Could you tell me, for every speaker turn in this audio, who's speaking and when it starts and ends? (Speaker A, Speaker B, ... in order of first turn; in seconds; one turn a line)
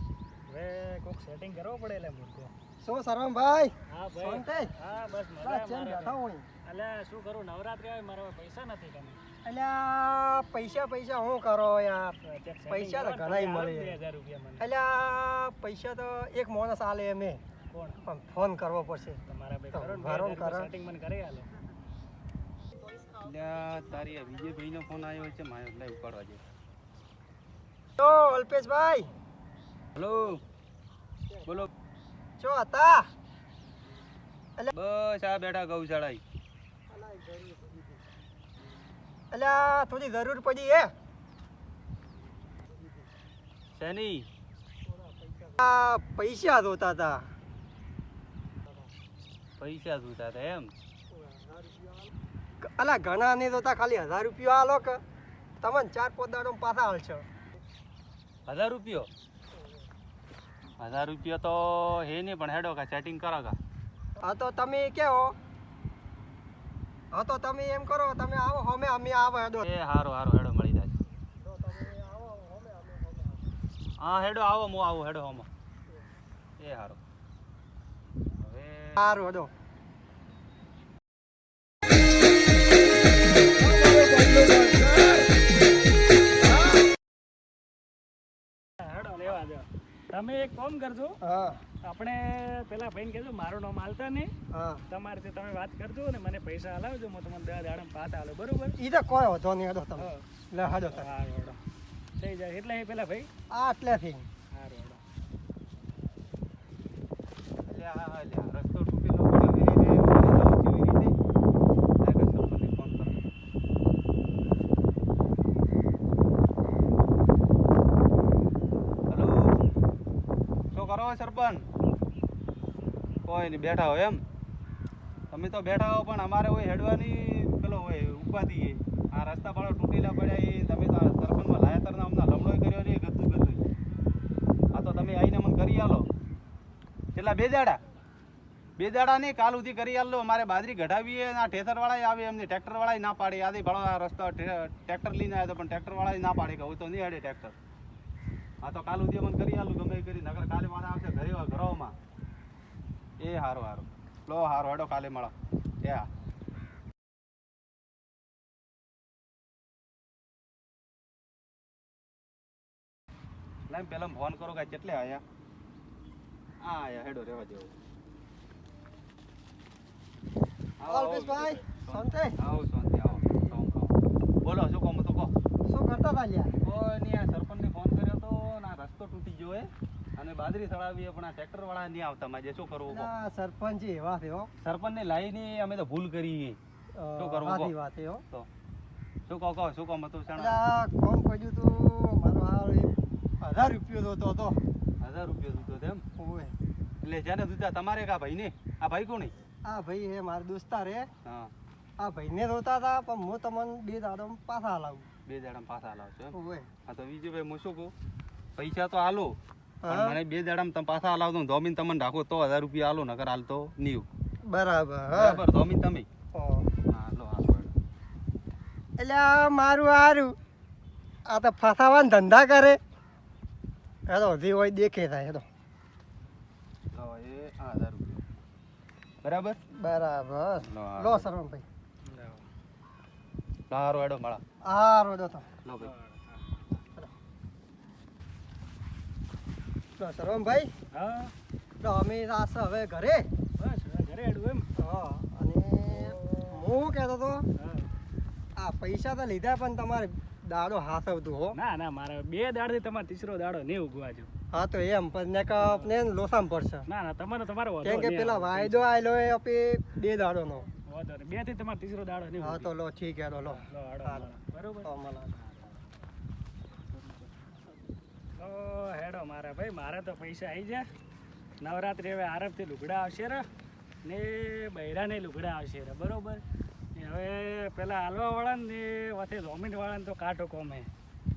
Speaker A: 0.5-2.5
Speaker B: 2.8-4.7
Speaker A: 3.9-9.2
Speaker B: 5.4-6.4
Speaker B: 9.4-12.2
Speaker A: 12.2-14.6
Speaker B: 12.7-14.0
Speaker B: 14.6-17.4
Speaker A: 17.7-18.0
Speaker B: 18.0-19.2
Speaker A: 19.3-21.5
Speaker B: 19.7-20.7
Speaker C: 23.1-26.4
Speaker B: 28.0-29.1
Speaker C: 29.9-30.4
Speaker B: 32.4-33.1
Speaker C: 34.7-36.2
Speaker B: 36.9-37.8
Speaker B: 39.3-40.9
Speaker C: 43.8-44.3
Speaker B: 45.0-47.3
Speaker C: 49.6-50.7
Speaker B: 51.1-52.1
Speaker B: 52.6-55.0
Speaker B: 55.6-57.3
Speaker C: 58.5-59.1
Speaker C: 60.8-63.6
Speaker B: 64.2-65.3
Speaker B: 67.1-69.7
Speaker C: 69.6-70.9
Speaker B: 71.5-73.2
Speaker C: 74.0-75.5
Speaker C: 76.6-77.0
Speaker C: 78.3-79.1
Speaker B: 79.0-79.5
Speaker B: 83.6-85.2
Speaker A: 88.8-91.2
Speaker B: 91.2-91.6
Speaker A: 91.8-94.3
Speaker B: 94.5-94.8
Speaker A: 94.9-98.8
Speaker B: 98.8-101.1
Speaker A: 100.0-100.2
Speaker A: 100.9-101.6
Speaker A: 102.2-103.3
Speaker B: 103.5-104.3
Speaker A: 104.5-105.0
Speaker C: 107.6-111.1
Speaker C: 112.0-113.3
Speaker C: 119.1-119.6
Speaker C: 120.7-121.7
Speaker C: 123.3-124.2
Speaker C: 125.3-133.6
Speaker C: 134.7-136.1
Speaker C: 137.1-137.8
Speaker C: 138.8-147.6
Speaker C: 148.6-151.9
Speaker C: 153.2-156.1
Speaker C: 163.7-165.2
Speaker C: 166.6-167.7
Speaker C: 170.8-175.3
Speaker B: 170.9-172.4
Speaker B: 175.7-176.5
Speaker C: 176.6-183.1
Speaker B: 182.9-184.5
Speaker C: 184.6-186.6
Speaker B: 186.9-188.2
Speaker C: 187.2-187.7
Speaker C: 189.3-190.6
Speaker B: 190.3-194.6
Speaker C: 195.0-196.0
Speaker B: 196.2-196.5
Speaker C: 197.0-199.3
Speaker B: 199.6-201.1
Speaker C: 201.2-201.5
Speaker B: 202.0-205.1
Speaker C: 205.2-206.3
Speaker B: 206.3-206.7
Speaker C: 206.8-207.9
Speaker C: 208.6-214.1
Speaker B: 209.8-210.2
Speaker B: 214.4-215.4
Speaker C: 215.1-216.1
Speaker B: 216.3-216.7
Speaker C: 216.9-217.7
Speaker B: 219.0-220.3
Speaker B: 221.2-222.8
Speaker B: 224.1-225.4
Speaker C: 226.9-228.2
Speaker C: 229.2-229.6
Speaker B: 229.7-231.6
Speaker C: 230.6-231.3
Speaker A: 232.1-232.4
Speaker C: 233.7-234.4
Speaker B: 234.6-235.5
Speaker C: 235.6-235.9
Speaker A: 235.8-236.2
Speaker B: 240.0-240.7
Speaker A: 240.9-241.3
Speaker B: 241.8-243.3
Speaker A: 243.6-244.7
Speaker B: 244.8-247.4
Speaker A: 247.6-247.9
Speaker B: 248.6-251.6
Speaker A: 251.5-254.3
Speaker B: 254.5-256.8
Speaker A: 255.6-255.9
Speaker A: 256.9-258.9
Speaker B: 257.8-260.7
Speaker A: 260.9-262.7
Speaker B: 262.4-264.3
Speaker A: 263.5-264.9
Speaker B: 264.8-265.3
Speaker A: 268.4-270.9
Speaker A: 271.6-273.4
Speaker A: 274.1-276.4
Speaker A: 276.9-280.9